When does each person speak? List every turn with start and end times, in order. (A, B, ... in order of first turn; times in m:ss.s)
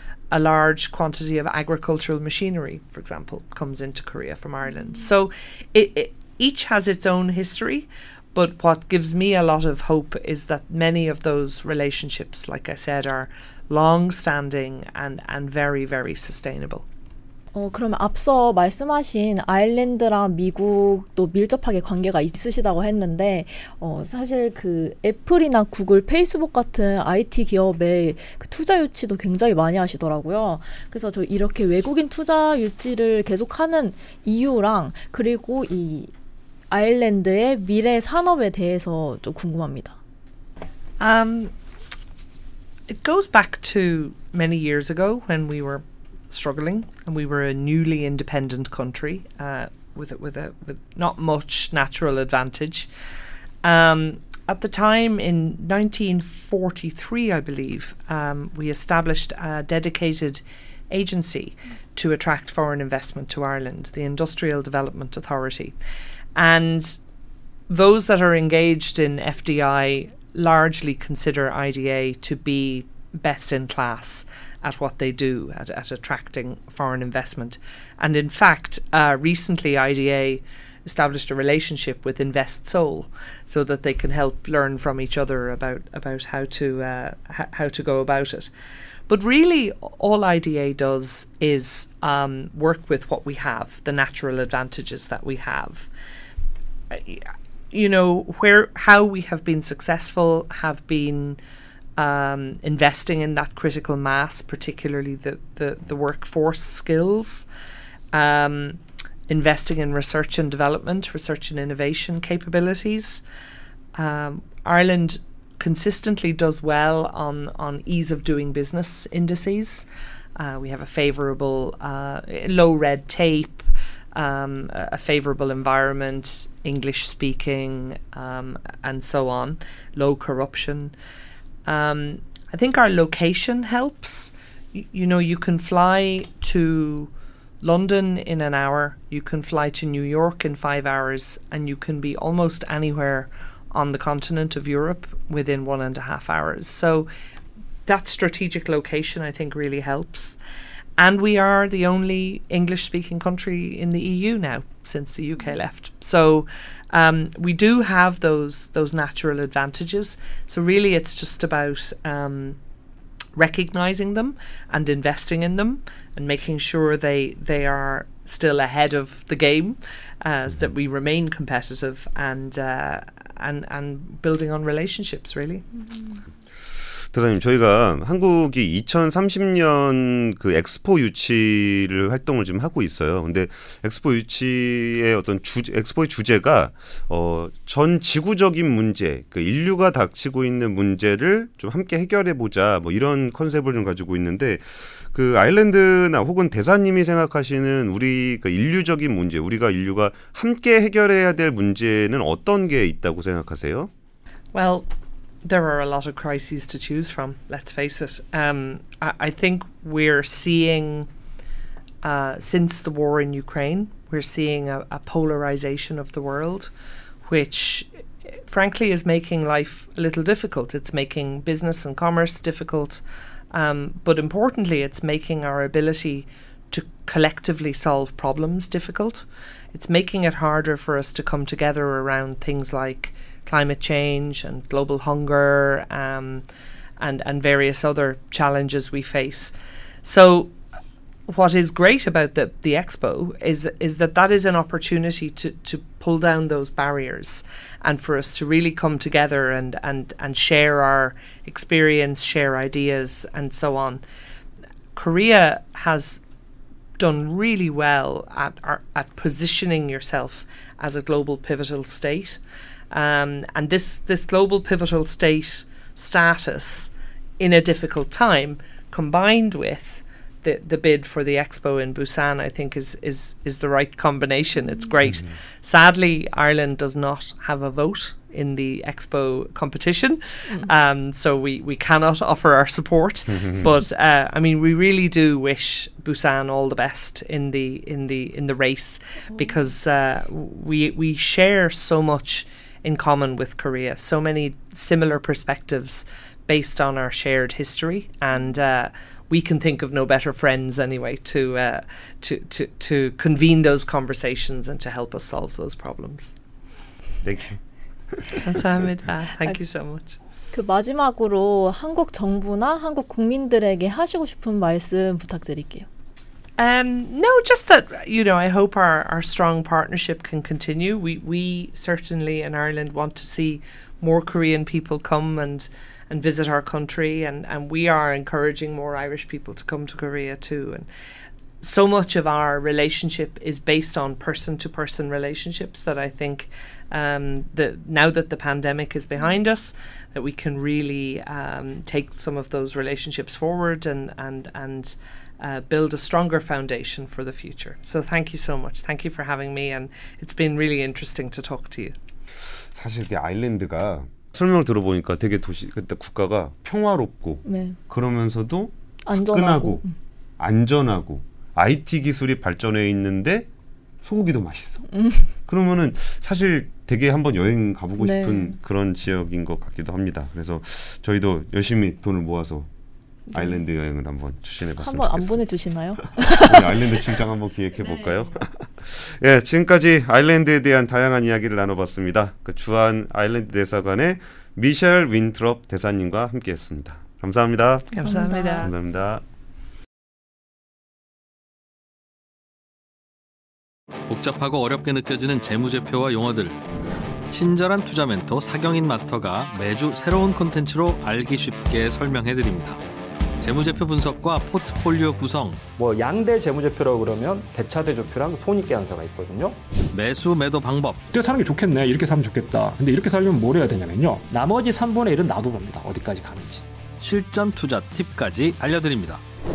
0:00.3-0:16.8 A
0:17.5-0:36.1 B
0:36.7-0:40.0 B
0:41.0-0:41.5 A
0:42.9-0:52.9 A
0:53.6-1:05.8 A
1:06.4-1:07.0 A
1:07.7-1:28.5 A
1:29.1-1:35.9 A
1:36.9-1:41.4 A
1:42.0-1:47.5 A
1:48.1-1:53.2 A
1:54.0-2:10.9 A
2:11.6-2:17.1 A
2:17.6-2:27.1 A
2:27.9-2:30.4 A
2:31.0-2:42.6 A
2:43.4-2:55.8 A
2:57.1-3:23.9 C
3:24.5-3:24.9 A
3:25.4-3:31.1 A
3:32.0-3:36.7 A
3:37.2-3:56.4 A
3:57.0-4:00.5 A
4:01.3-4:14.0 A
4:15.0-4:16.2 A
4:17.0-5:06.4 A
5:07.2-5:07.6 C
5:08.3-5:10.2 A
5:10.5-5:15.9 B
5:16.6-5:30.9 A
5:31.6-5:52.0 A
5:52.7-5:59.9 C
5:57.4-5:57.8 B
5:59.0-5:59.9 B
6:00.4-6:03.5 C
6:04.0-6:04.9 C
6:04.9-6:05.3 B
6:05.5-6:12.7 C
6:08.0-6:08.6 B
6:13.3-6:13.6 B
6:13.3-6:29.2 C
6:14.8-6:17.0 B
6:27.9-6:28.7 A
6:28.0-6:28.7 B
6:34.1-6:36.6 D
6:37.3-6:42.8 D
6:43.4-6:45.6 D
6:45.8-6:49.6 E
6:49.9-6:51.0 D
6:51.1-6:56.6 F
6:57.0-6:59.2 D